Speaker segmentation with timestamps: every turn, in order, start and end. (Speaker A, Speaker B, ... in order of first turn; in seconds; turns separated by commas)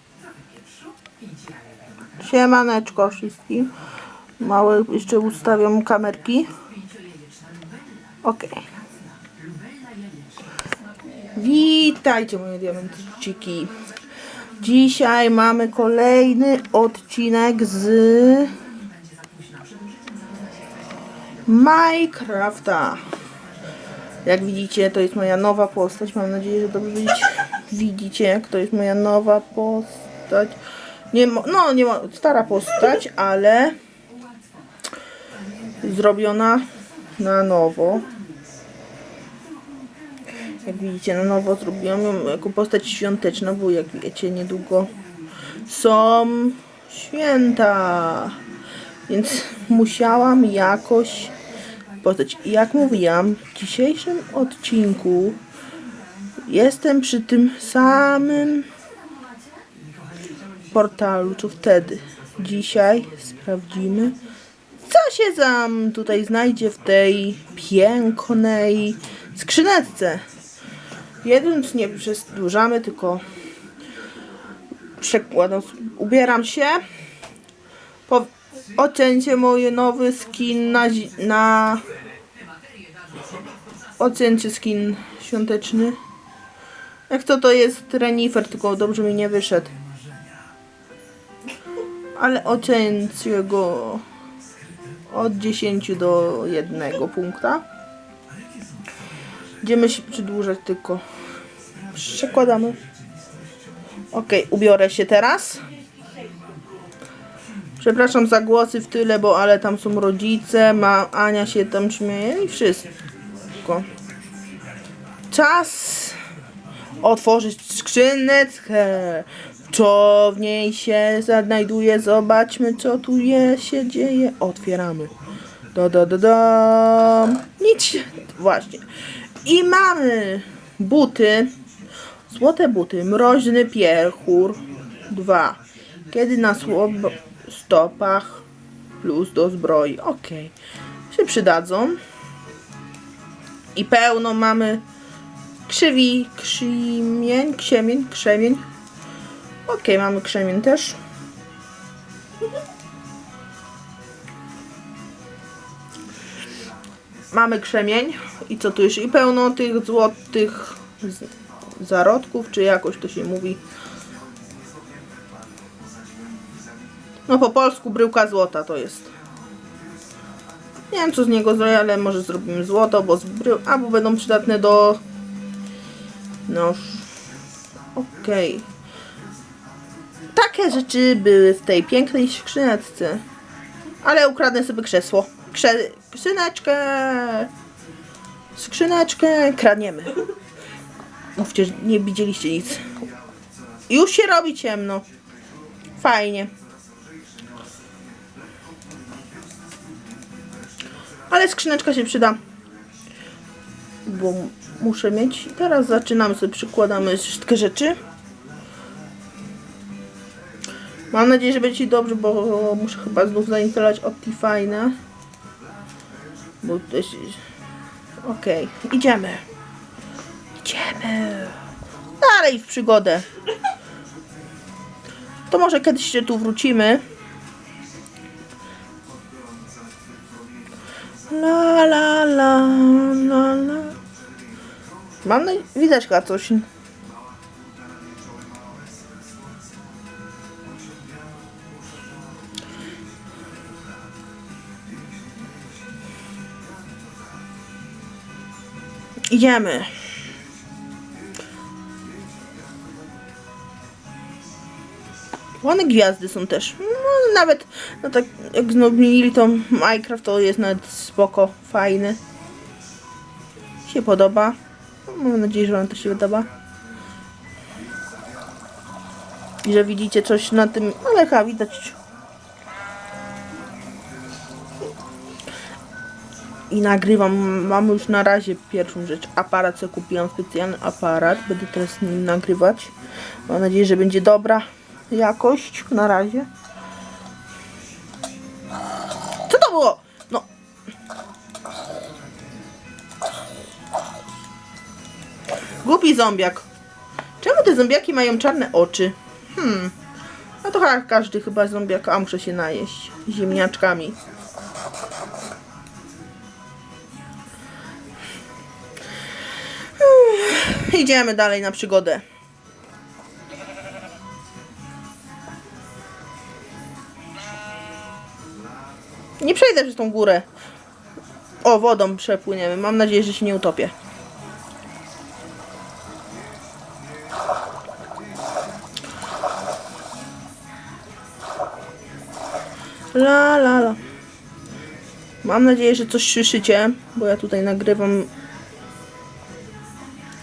Speaker A: 2.2-3.7, Speaker A: 4.4-6.5, Speaker A: 8.2-8.6, Speaker A: 11.3-13.7, Speaker A: 14.6-18.6, Speaker A: 21.5-23.0, Speaker A: 24.2-30.6, Speaker A: 31.1-33.8, Speaker A: 35.8-38.1, Speaker A: 40.6-44.9, Speaker A: 45.7-48.4, Speaker A: 49.1-51.3, Speaker A: 52.0-55.4, Speaker A: 56.5-58.7, Speaker A: 60.7-64.2, Speaker A: 64.8-70.2, Speaker A: 71.2-73.2, Speaker A: 75.0-76.8, Speaker A: 78.1-81.9, Speaker A: 84.0-86.0, Speaker A: 87.1-89.8, Speaker A: 92.2-94.0, Speaker A: 95.1-97.7, Speaker A: 99.6-101.0, Speaker A: 101.9-102.8, Speaker A: 104.1-105.7, Speaker A: 107.8-112.9, Speaker A: 113.6-113.9, Speaker A: 115.3-116.2, Speaker A: 117.0-125.1, Speaker A: 125.7-128.9, Speaker A: 129.4-131.6, Speaker A: 132.3-138.4, Speaker A: 139.0-140.6, Speaker A: 141.1-142.0, Speaker A: 143.8-144.8, Speaker A: 145.7-148.6, Speaker A: 149.7-151.0, Speaker A: 157.3-163.6, Speaker A: 167.3-169.1, Speaker A: 170.9-175.0, Speaker A: 176.5-177.1, Speaker A: 177.9-178.7, Speaker A: 180.3-183.2, Speaker A: 184.0-187.5, Speaker A: 188.6-190.3, Speaker A: 191.4-192.9, Speaker A: 193.9-195.1, Speaker A: 196.0-196.5, Speaker A: 201.3-202.4, Speaker A: 204.1-208.0, Speaker A: 211.1-215.0, Speaker A: 216.6-217.4, Speaker A: 218.2-219.4, Speaker A: 220.6-221.6, Speaker A: 222.2-223.3, Speaker A: 225.5-227.0, Speaker A: 231.3-234.0, Speaker A: 235.2-236.7, Speaker A: 249.3-249.9, Speaker A: 255.6-262.2, Speaker A: 263.9-266.5, Speaker A: 269.6-272.0, Speaker A: 276.7-282.9, Speaker A: 283.5-286.5, Speaker A: 289.5-290.5, Speaker A: 295.8-296.7, Speaker A: 297.4-299.9, Speaker A: 300.6-304.2, Speaker A: 310.0-312.2, Speaker A: 319.4-320.5, Speaker A: 321.6-323.9, Speaker A: 333.1-334.0, Speaker A: 335.4-338.3